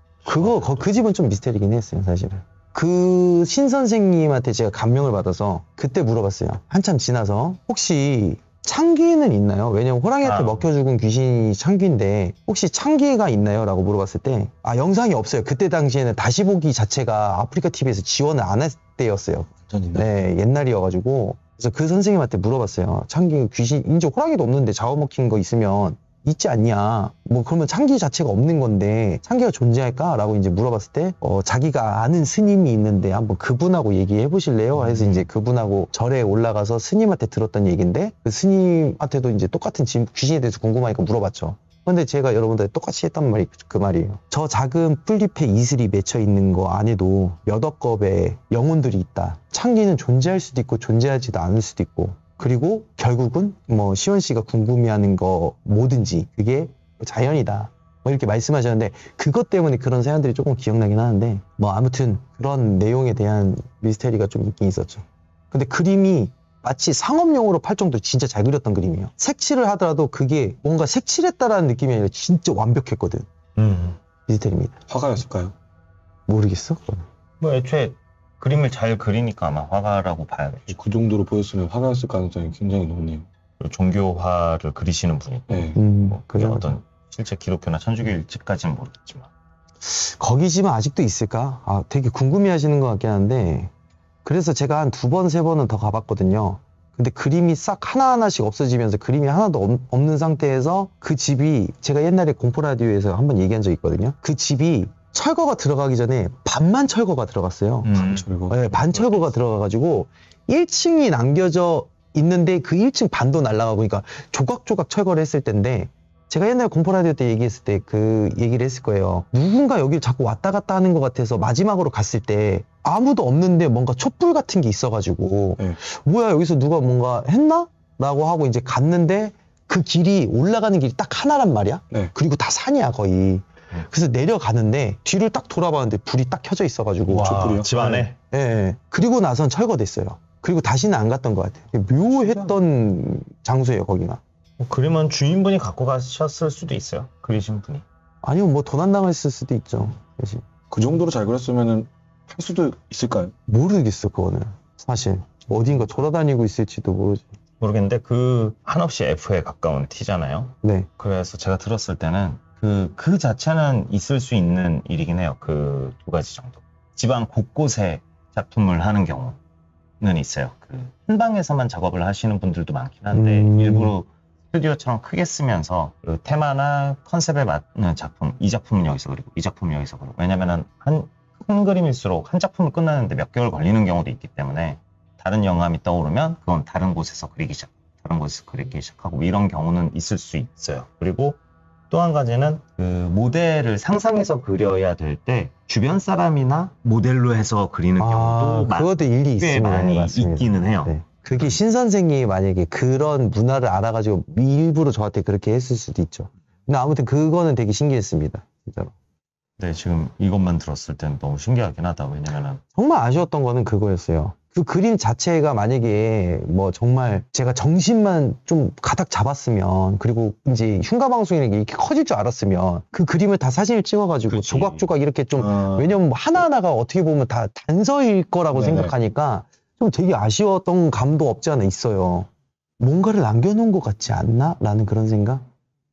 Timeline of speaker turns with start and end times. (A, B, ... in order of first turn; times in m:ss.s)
0:00.2-1:13.3 A
0:00.6-0:00.8 B
0:10.2-0:10.6 B
0:19.7-0:20.0 C
0:34.9-0:35.2 B
1:13.6-1:14.0 B
1:14.2-1:14.8 A
1:14.9-1:15.5 C
1:16.3-1:17.0 A
1:17.4-1:20.8 B
1:20.7-1:23.3 C
1:23.6-1:29.3 B
1:25.5-1:25.8 C
1:25.7-1:26.7 A
1:29.8-1:33.7 A
1:34.2-2:24.2 A
1:47.8-1:49.3 B
1:47.9-1:48.6 C
2:17.1-2:18.1 C
2:17.1-2:18.1 B
2:22.1-2:22.6 B
2:24.6-2:27.8 B
2:28.2-2:30.4 A
2:30.7-2:33.3 C
2:33.5-2:37.3 A
2:37.6-2:49.4 B
2:40.6-2:40.9 A
2:50.0-3:11.4 B
2:53.1-2:53.9 A
3:11.9-3:21.6 B
3:18.0-3:28.9 A
3:29.6-3:32.6 B
3:32.7-3:55.4 A
3:44.3-3:44.9 B
3:45.4-3:45.9 C
3:48.5-3:48.9 C